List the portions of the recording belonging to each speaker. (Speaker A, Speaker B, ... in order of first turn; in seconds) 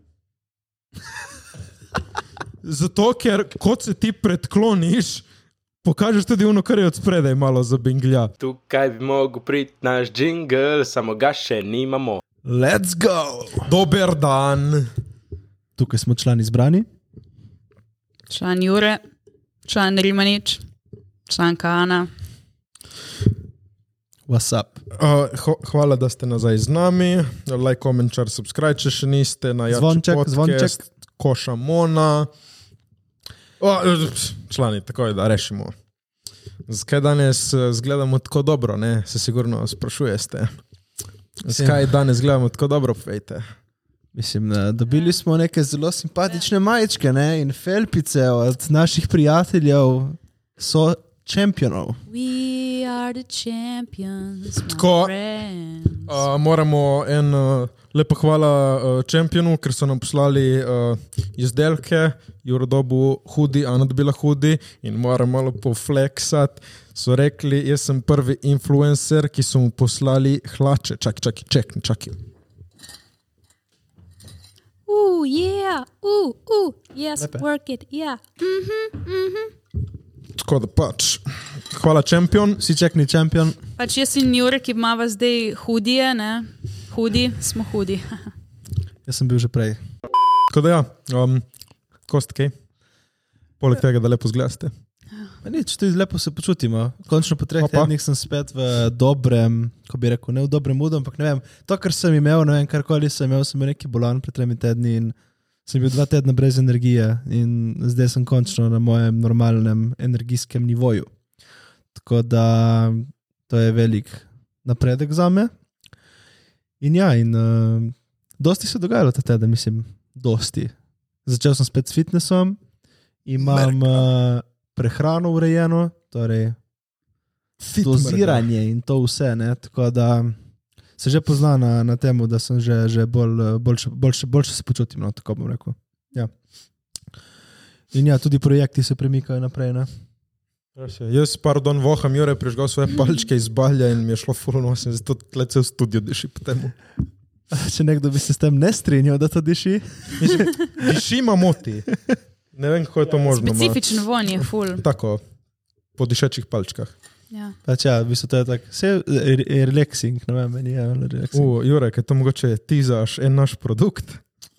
Speaker A: 2.6-5.2, 5.8-8.3, 13.6-14.9, 24.9-32.3, 33.6-35.7, 36.7-40.5, 41.4-43.5, 54.7-55.1, 56.1-72.2, 80.4-82.6, 90.5-91.5, 92.0-92.5, 93.6-94.7, 97.6-97.9, 123.4-124.0, 127.6-128.5, 140.8-146.8, 150.2-151.9, 152.5-153.8, 154.4-155.2, 156.0-156.9, 161.3-164.2
Speaker B: 8.4-12.2
Speaker C: 12.4-13.7, 15.8-16.9, 24.3-24.8, 29.7-30.8, 41.5-41.9, 44.1-52.0, 77.2-77.5, 82.6-83.6, 89.1-89.8, 95.4-111.1, 111.9-115.5, 116.8-122.6, 123.3-126.6, 127.8-130.4, 131.0-136.3, 137.9-139.9, 147.5-150.5, 157.7-161.5
Speaker D: 18.3-19.0, 19.7-20.6, 21.3-22.1, 44.9-45.2, 52.1-56.2, 74.9-79.5, 83.8-88.3, 153.2-154.8